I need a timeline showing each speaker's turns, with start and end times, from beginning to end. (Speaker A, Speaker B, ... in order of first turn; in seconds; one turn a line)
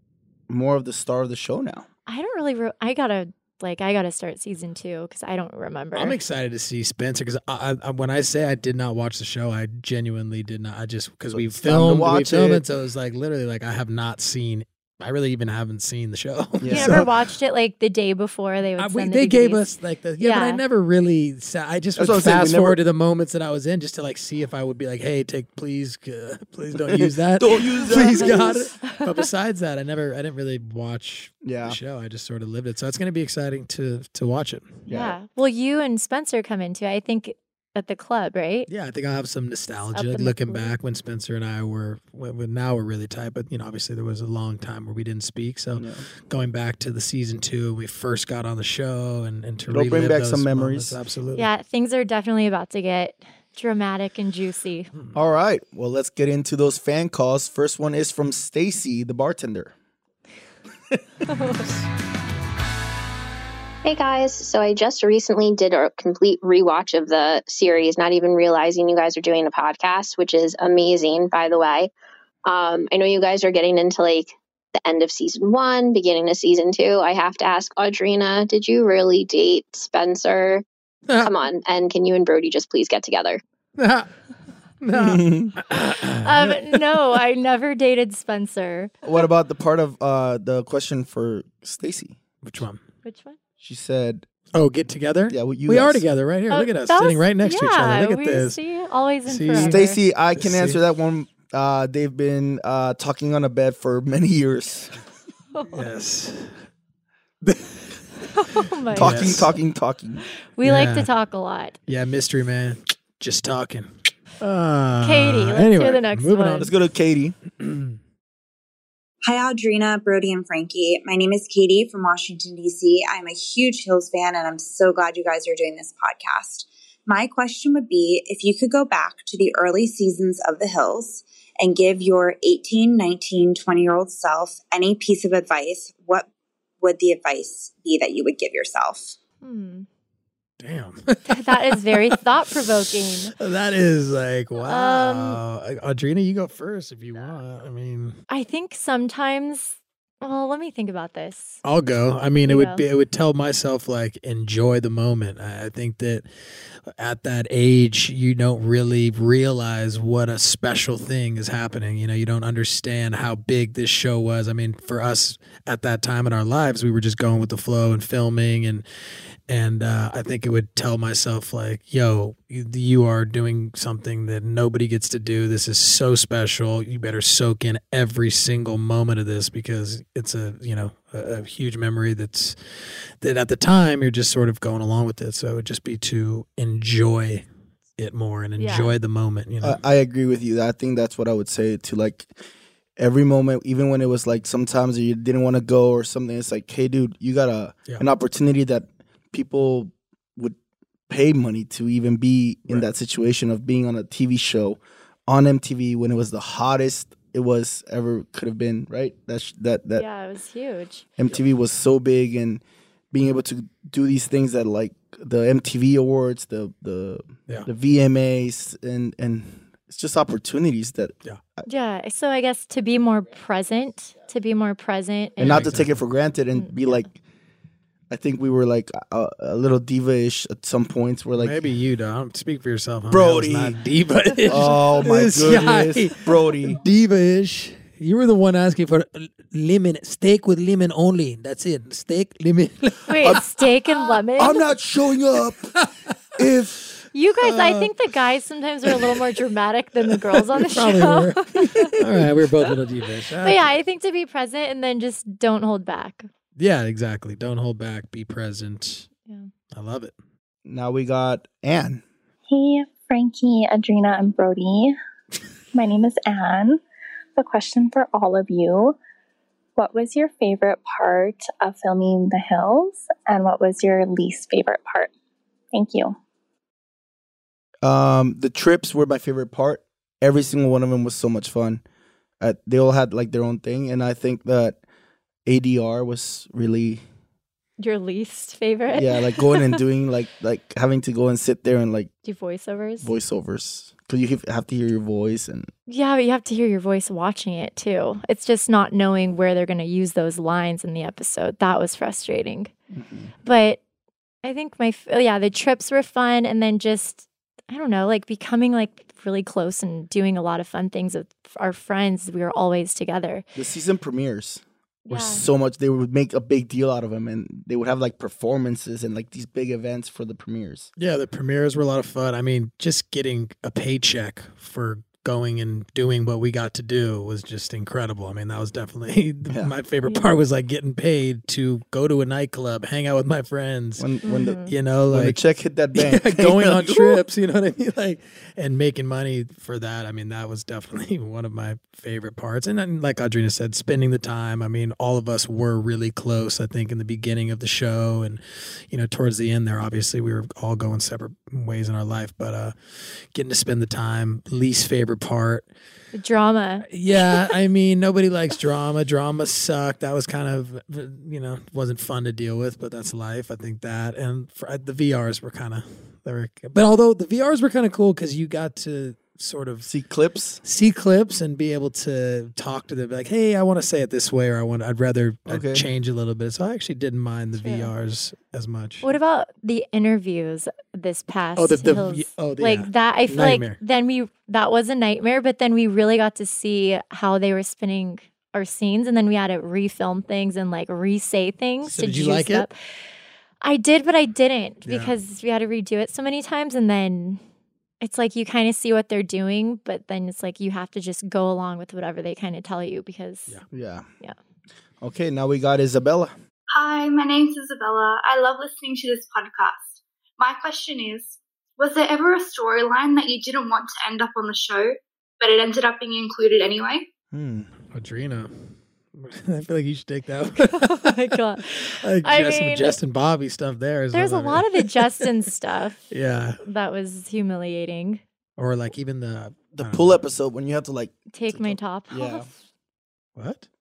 Speaker A: 0.5-1.9
Speaker B: 2.1-6.2
Speaker C: 6.0-17.1
Speaker A: 11.3-12.6
Speaker A: 16.6-17.1
Speaker B: 16.7-19.6
Speaker C: 18.8-34.8
Speaker B: 20.2-20.6
Speaker A: 22.0-22.8
Speaker A: 26.8-28.5
Speaker B: 27.8-29.2
Speaker A: 31.4-31.8
Speaker A: 34.9-35.2
Speaker B: 34.9-38.7
Speaker C: 38.7-51.5
Speaker B: 39.9-40.7
Speaker A: 45.8-46.0
Speaker A: 49.7-51.0
Speaker B: 51.4-54.9
Speaker A: 55.1-59.7
Speaker D: 63.8-71.9
Speaker D: 72.5-80.7
Speaker C: 81.1-81.3
Speaker D: 81.2-83.4
Speaker C: 83.8-84.1
Speaker C: 84.8-87.0
Speaker A: 84.9-85.5
Speaker B: 86.2-88.9
Speaker A: 89.0-92.2
Speaker C: 92.4-92.8
Speaker B: 93.0-93.4
Speaker A: 93.6-94.3
Speaker C: 94.5-98.6
Speaker A: 95.3-96.1
Speaker B: 96.5-100.0
Speaker C: 99.3-100.8
Speaker A: 99.5-104.9
Speaker C: 105.7-106.6
Speaker C: 107.4-107.8
Speaker B: 108.3-109.4
Speaker C: 108.9-109.5
Speaker A: 109.0-110.2
Speaker B: 110.6-111.8
Speaker C: 110.6-111.1
Speaker C: 111.9-116.8
Speaker B: 115.0-116.7
Speaker A: 116.6-117.4
Speaker C: 117.6-118.0
Speaker E: 119.3-136.3
Speaker E: 136.8-139.2
Speaker B: 139.4-139.9
Speaker C: 140.6-148.2
Speaker B: 141.3-143.3
Speaker B: 144.6-145.4
Speaker B: 148.3-151.6
Speaker C: 151.6-156.3
Speaker B: 152.4-152.8
Speaker C: 156.9-168.8
Speaker C: 169.5-182.6
Speaker C: 183.2-187.5
Speaker C: 188.0-189.8
Speaker B: 188.6-188.9
Speaker A: 189.6-192.3
Speaker A: 193.0-200.6
Speaker A: 201.1-210.1
Speaker B: 210.0-211.1
Speaker A: 211.2-221.7
Speaker B: 221.7-225.7
Speaker C: 225.4-225.9
Speaker A: 225.4-227.2
Speaker A: 228.1-231.6
Speaker C: 231.4-243.4
Speaker A: 233.1-233.8
Speaker A: 234.5-236.8
Speaker B: 243.1-244.6
Speaker A: 244.4-245.7
Speaker C: 245.8-246.1
Speaker A: 246.4-246.8
Speaker B: 247.1-251.9
Speaker C: 247.4-247.9
Speaker C: 250.3-253.8
Speaker B: 253.4-256.3
Speaker C: 256.6-259.1
Speaker C: 259.7-260.1
Speaker A: 260.6-262.0
Speaker F: 262.5-265.0
Speaker F: 265.7-266.8
Speaker F: 267.4-269.0
Speaker F: 269.8-275.1
Speaker F: 275.7-276.2
Speaker A: 277.8-281.8
Speaker A: 282.4-284.8
Speaker A: 285.5-287.0
Speaker B: 287.8-289.8
Speaker A: 288.9-292.1
Speaker B: 292.2-293.1
Speaker A: 293.0-295.7
Speaker B: 295.9-302.7
Speaker A: 302.9-303.3
Speaker B: 303.4-303.8
Speaker B: 304.4-313.5
Speaker A: 313.6-320.9
Speaker B: 315.1-315.5
Speaker C: 321.0-334.1
Speaker A: 334.0-337.2
Speaker B: 334.2-334.7
Speaker C: 334.6-335.4
Speaker C: 335.9-355.7
Speaker B: 356.1-356.9
Speaker C: 356.9-369.9
Speaker A: 369.9-370.6
Speaker C: 370.6-379.1
Speaker A: 375.5-375.9
Speaker B: 377.6-377.9
Speaker B: 379.0-392.8
Speaker C: 381.6-383.8
Speaker C: 391.8-392.7
Speaker B: 393.6-397.4
Speaker C: 394.9-395.1
Speaker B: 398.0-403.6
Speaker A: 403.7-404.1
Speaker A: 405.0-406.3
Speaker G: 406.7-417.1
Speaker A: 417.3-417.7
Speaker C: 417.9-425.3
Speaker B: 420.7-423.0
Speaker B: 424.1-426.0
Speaker C: 426.1-426.6
Speaker B: 426.6-428.2
Speaker C: 428.6-430.2
Speaker A: 429.7-432.5
Speaker B: 431.3-432.5
Speaker C: 433.4-433.7